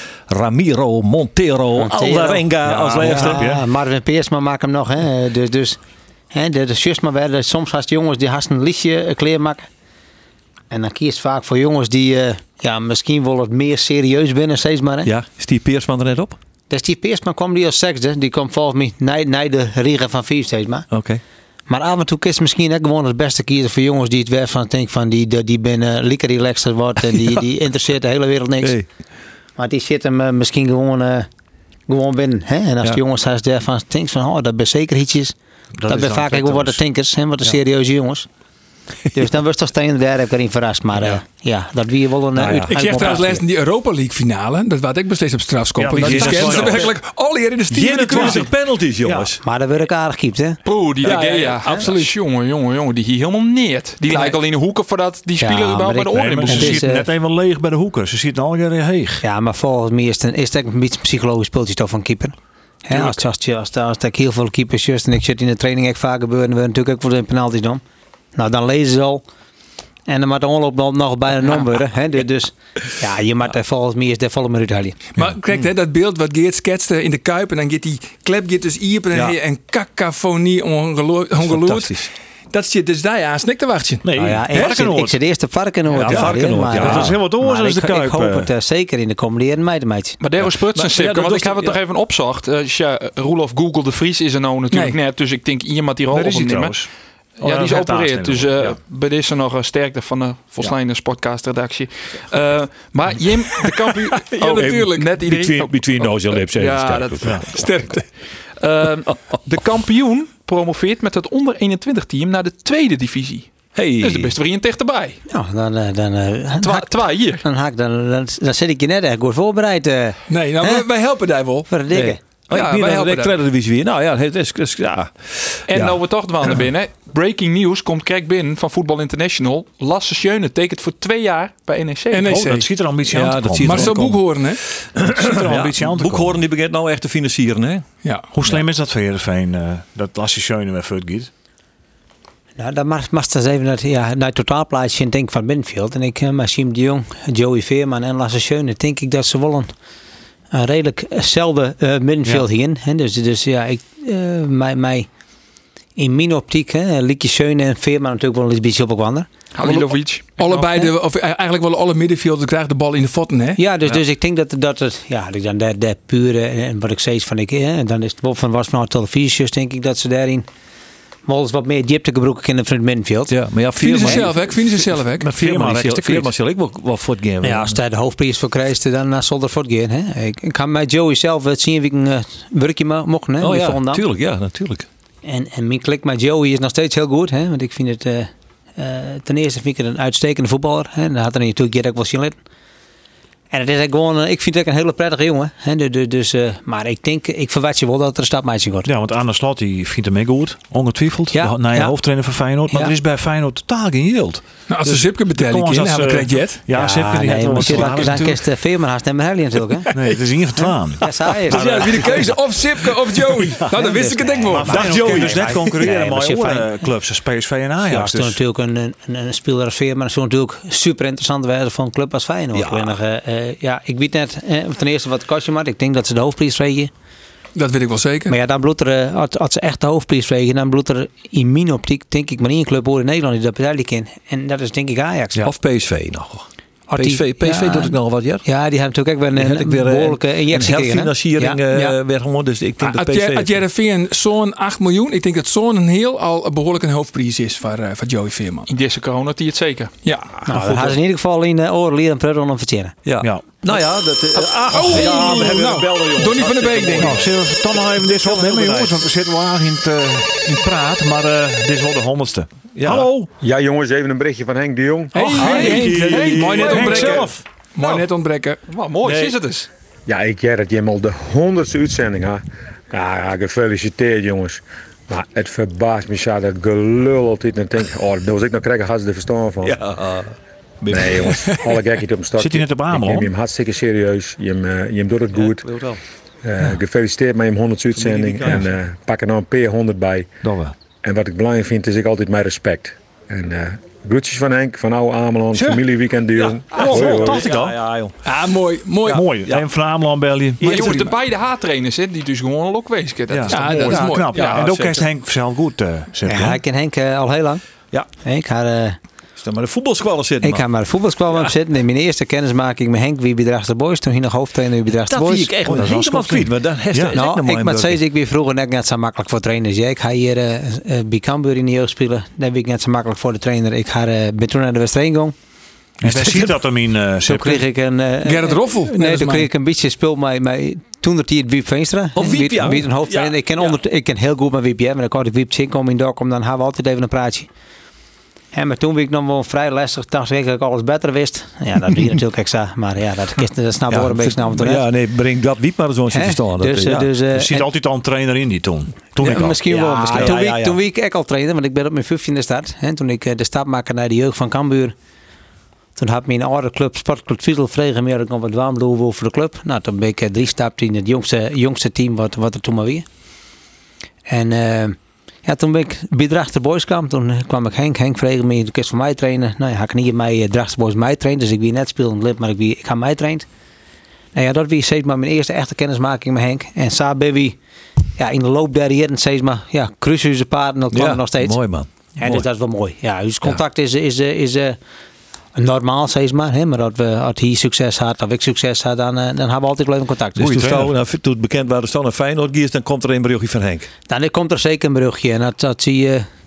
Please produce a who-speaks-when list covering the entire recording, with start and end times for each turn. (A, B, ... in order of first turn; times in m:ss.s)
0:00.3-0:03.4 A
0:01.8-0:05.8 B
0:02.6-0:03.6 C
0:06.3-0:09.7 B
0:10.7-0:15.1 B
0:15.0-0:16.4 A
0:16.7-0:20.9 B
0:20.9-0:21.2 A
0:21.7-0:28.7 B
0:28.6-0:28.9 A
0:29.6-0:31.3 B
0:31.9-0:35.4 B
0:35.8-0:36.8 C
0:35.9-0:38.3 B
0:39.1-0:43.4 B
0:42.4-0:43.3 A
0:42.7-0:48.5 D
0:45.8-0:46.9 C
0:45.9-0:46.9 A
0:47.7-0:49.4 A
0:48.1-0:48.4 C
0:49.0-0:49.3 C
0:49.4-0:50.6 B
0:50.6-0:56.8 E
0:51.0-0:52.0 D
0:54.0-0:54.4 D
0:55.4-0:57.1 B
0:56.1-0:59.2 C
0:59.2-1:02.4 B
1:02.9-1:07.8 B
1:08.4-1:09.2 B
1:10.1-1:15.0 B
1:15.2-1:21.9 D
1:15.2-1:15.7 A
1:21.4-1:22.1 A
1:22.5-1:24.8 D
1:24.0-1:25.2 C
1:24.2-1:30.2 B
1:25.9-1:27.2 A
1:26.0-1:28.5 C
1:30.2-1:36.8 E
1:30.4-1:31.8 A
1:34.7-1:35.0 D
1:36.1-1:36.9 C
1:37.4-1:38.8 C
1:37.4-1:47.9 E
1:44.1-1:45.3 D
1:44.4-1:47.4 A
1:47.5-1:48.0 D
1:48.6-1:55.2 E
1:53.7-1:54.3 A
1:55.3-2:00.8 B
1:56.6-1:57.4 E
2:00.3-2:01.7 D
2:01.7-2:02.2 B
2:01.9-2:06.0 A
2:02.5-2:03.2 E
2:02.5-2:03.3 D
2:05.7-2:12.3 E
2:12.1-2:12.7 D
2:12.2-2:14.0 C
2:13.1-2:14.2 A
2:13.6-2:14.6 D
2:15.0-2:17.8 A
2:15.0-2:16.4 C
2:18.3-2:21.3 C
2:22.6-2:29.7 B
2:30.5-2:35.1 B
2:36.0-2:39.3 B
2:39.5-2:40.7 E
2:39.6-2:43.6 D
2:40.6-2:40.9 B
2:43.6-2:50.5 B
2:51.2-2:53.4 B
2:53.3-2:57.8 A
2:53.8-2:55.3 D
2:55.4-2:56.3 C
2:57.4-3:04.0 B
3:03.4-3:04.9 A
3:05.2-3:12.4 B
3:13.5-3:18.9 B
3:18.8-3:28.4 C
3:21.3-3:21.9 B
3:24.7-3:26.6 D
3:26.7-3:29.9 B
3:29.9-3:32.3 C
3:31.0-3:32.0 B
3:31.5-3:35.0 D
3:33.7-3:36.8 B
3:34.5-3:38.4 C
3:34.8-3:35.6 A
3:37.8-3:46.9 B
3:42.5-3:42.9 A
3:47.6-3:48.3 D
3:48.3-3:55.4 B
3:55.4-3:58.4 A
3:56.9-4:01.9 B
3:59.4-4:03.6 A
4:02.8-4:08.7 D
4:08.7-4:09.9 E
4:10.0-4:10.3 D
4:10.4-4:12.9 B
4:10.5-4:10.9 A
4:13.0-4:17.3 A
4:14.7-4:17.2 D
4:17.0-4:23.3 C
4:17.9-4:18.9 A
4:22.7-4:23.1 A
4:23.4-4:25.4 F
4:25.1-4:28.6 D
4:25.4-4:27.4 C
4:25.4-4:25.8 E
4:25.4-4:27.3 A
4:26.5-4:26.9 E
4:28.7-4:29.7 E
4:29.0-4:29.3 A
4:30.1-4:39.8 F
4:39.6-4:41.6 A
4:40.9-4:45.6 F
4:42.4-4:43.3 C
4:45.3-4:46.0 A
4:46.4-4:50.3 F
4:47.9-4:48.7 A
4:50.4-4:50.7 C
4:51.0-4:57.5 F
4:55.5-4:55.8 C
4:56.4-4:58.1 A
4:56.7-4:57.8 C
4:58.2-4:59.2 D
4:59.1-4:59.6 A
4:59.1-5:01.0 C
5:00.6-5:04.8 E
5:00.6-5:01.1 D
5:03.3-5:06.6 C
5:03.5-5:04.6 D
5:04.4-5:05.0 A
5:06.2-5:07.6 B
5:08.2-5:09.0 B
5:09.4-5:10.6 A
5:10.4-5:15.7 B
5:14.9-5:18.0 A
5:15.7-5:17.2 C
5:17.1-5:25.4 B
5:26.0-5:27.6 C
5:27.2-5:37.5 B
5:28.2-5:29.5 D
5:32.1-5:33.8 A
5:38.5-5:44.9 B
5:43.9-5:47.1 A
5:46.1-5:47.7 B
5:47.3-5:49.6 C
5:49.2-5:54.9 B
5:49.2-5:50.8 A
5:56.0-6:03.0 B
6:04.3-6:13.4 B
6:14.4-6:17.6 B
6:18.2-6:21.6 B
6:20.9-6:22.5 A
6:22.2-6:24.8 B
6:25.5-6:30.6 B
6:30.4-6:33.9 A
6:30.4-6:30.9 C
6:34.1-6:36.3 B